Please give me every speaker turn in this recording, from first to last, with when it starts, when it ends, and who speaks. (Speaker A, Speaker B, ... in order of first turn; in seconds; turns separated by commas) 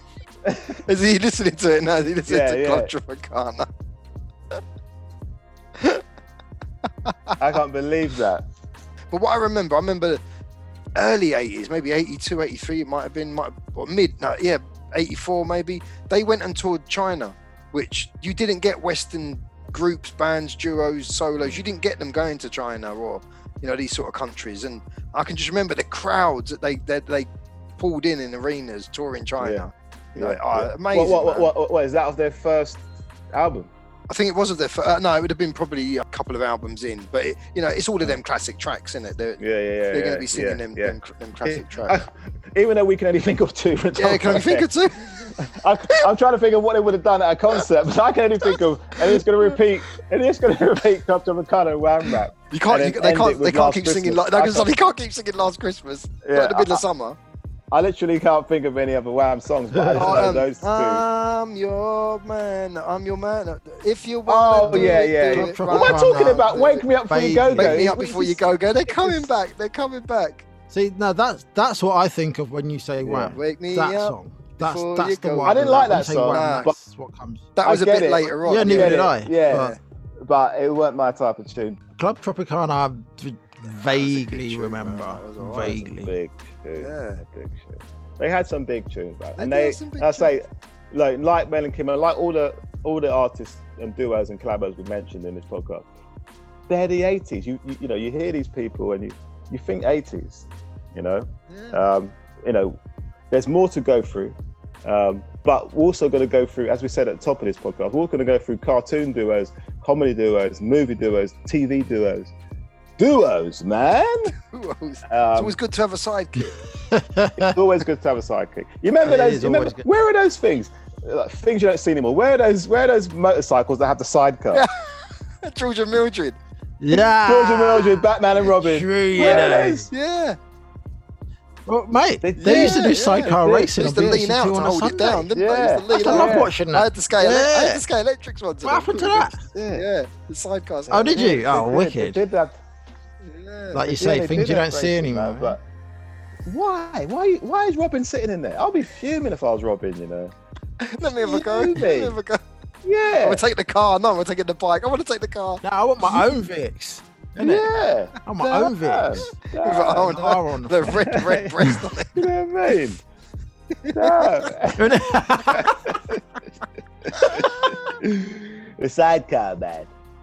Speaker A: 0.5-0.8, Speaker B: 0.8-3.7, Speaker A: 2.3-2.9, Speaker B: 5.8-6.0, Speaker B: 7.1-7.4, Speaker A: 7.4-8.5, Speaker B: 9.1-10.2, Speaker B: 11.0-31.5, Speaker A: 29.4-33.7, Speaker B: 34.1-42.0, Speaker A: 39.4-54.7, Speaker B: 44.0-45.3, Speaker B: 49.0-49.5, Speaker B: 52.5-57.2, Speaker A: 56.2-56.8, Speaker A: 57.7-61.0, Speaker C: 59.7-60.3, Speaker B: 60.0-66.8, Speaker A: 64.3-69.3, Speaker C: 64.7-68.0, Speaker B: 67.6-70.5, Speaker C: 70.7-77.5, Speaker A: 73.0-73.4, Speaker B: 73.3-76.7, Speaker A: 75.4-76.8, Speaker B: 77.6-79.8, Speaker A: 77.6-79.7, Speaker C: 78.4-79.8, Speaker A: 80.2-81.8, Speaker C: 82.0-86.1, Speaker B: 83.7-85.8, Speaker A: 85.5-95.9, Speaker B: 86.8-87.2, Speaker B: 89.4-90.3, Speaker A: 96.7-102.8, Speaker B: 101.5-101.8, Speaker A: 103.3-112.3, Speaker A: 113.0-114.3, Speaker B: 114.4-116.6, Speaker A: 115.1-115.6, Speaker C: 116.4-117.6, Speaker A: 117.4-124.7, Speaker C: 119.0-119.8, Speaker B: 124.5-124.9, Speaker B: 125.4-126.4, Speaker C: 126.8-129.9, Speaker A: 127.2-129.9, Speaker B: 129.9-130.4, Speaker C: 131.7-135.3, Speaker A: 132.2-134.3, Speaker B: 132.4-141.4, Speaker A: 135.3-136.5, Speaker C: 135.9-137.8, Speaker C: 138.6-139.5, Speaker A: 139.5-139.8, Speaker C: 140.9-142.2, Speaker A: 140.9-142.6, Speaker B: 143.2-143.8, Speaker C: 143.7-145.6, Speaker A: 143.9-145.6, Speaker A: 146.5-150.3, Speaker B: 150.8-152.4, Speaker A: 151.0-152.2, Speaker A: 152.8-153.4, Speaker B: 153.2-155.6, Speaker C: 155.6-157.7, Speaker A: 157.4-160.3, Speaker C: 158.2-159.3, Speaker B: 159.5-162.3, Speaker C: 159.9-161.8, Speaker A: 160.9-161.6, Speaker A: 162.2-163.0, Speaker B: 163.8-164.5, Speaker A: 163.9-166.2, Speaker C: 164.8-165.9, Speaker B: 167.1-168.0, Speaker A: 167.2-169.9